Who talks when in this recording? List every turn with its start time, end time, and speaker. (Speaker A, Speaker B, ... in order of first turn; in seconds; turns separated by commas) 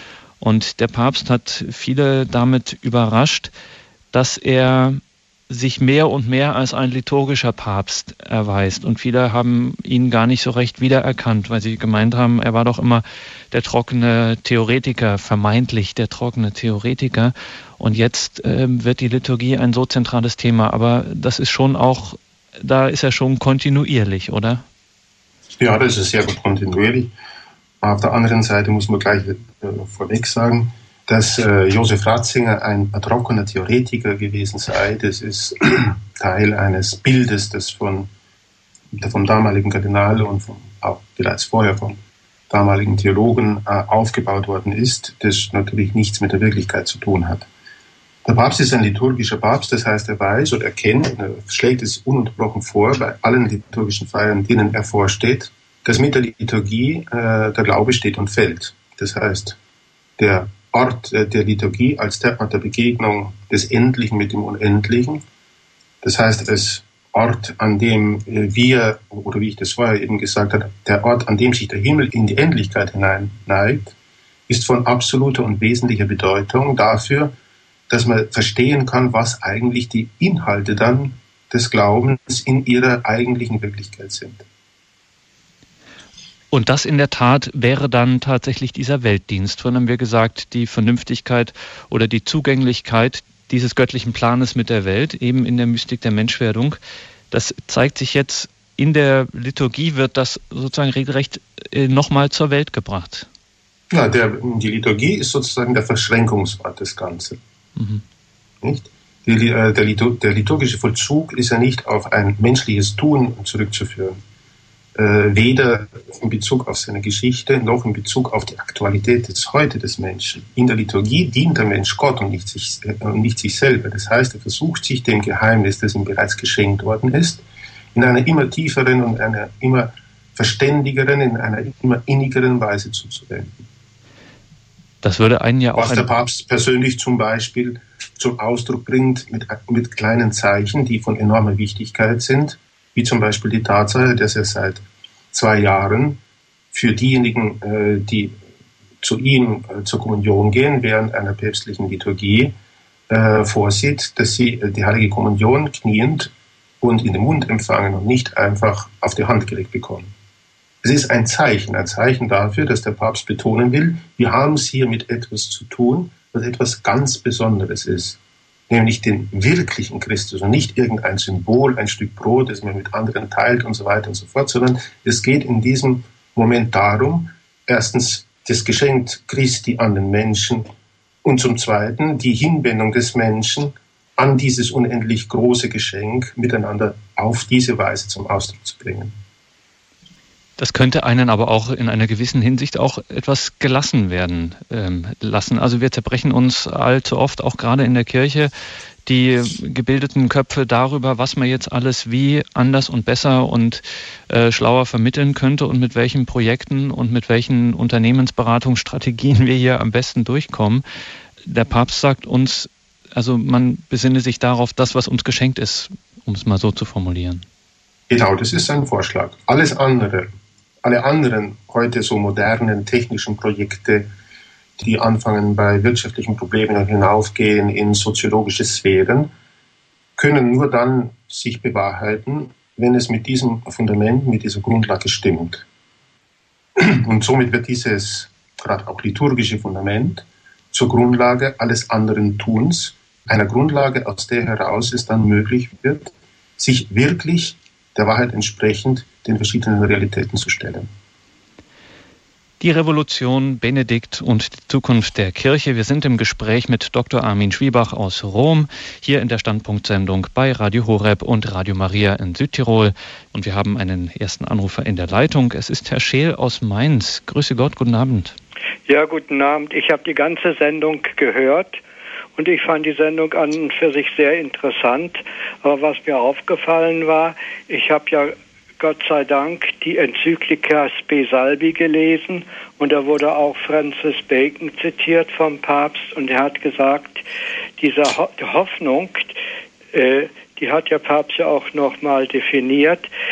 Speaker A: 0.4-3.5, Speaker A: 4.1-24.6, Speaker B: 25.6-27.1, Speaker B: 27.8-38.1, Speaker B: 38.9-42.0, Speaker B: 42.5-47.5, Speaker B: 48.2-59.6, Speaker B: 60.2-65.2, Speaker B: 66.0-73.9, Speaker B: 74.5-77.3, Speaker B: 77.9-84.4, Speaker A: 86.5-96.8, Speaker A: 97.3-103.3, Speaker B: 103.9-107.4, Speaker A: 107.8-108.0, Speaker B: 108.6-114.2, Speaker B: 114.9-133.7, Speaker A: 135.0-136.1, Speaker B: 135.8-146.2, Speaker B: 146.7-148.4, Speaker B: 149.0-152.5, Speaker B: 153.1-160.1, Speaker B: 160.8-180.7, Speaker B: 181.2-189.2, Speaker A: 190.6-198.5, Speaker A: 199.1-210.8, Speaker A: 211.4-217.4, Speaker B: 218.1-220.2, Speaker B: 220.8-224.1, Speaker B: 224.8-229.3, Speaker B: 230.2-235.7, Speaker B: 236.8-250.9, Speaker A: 252.6-268.4, Speaker C: 268.9-271.8, Speaker C: 272.4-287.2, Speaker C: 287.8-289.4, Speaker C: 289.9-293.1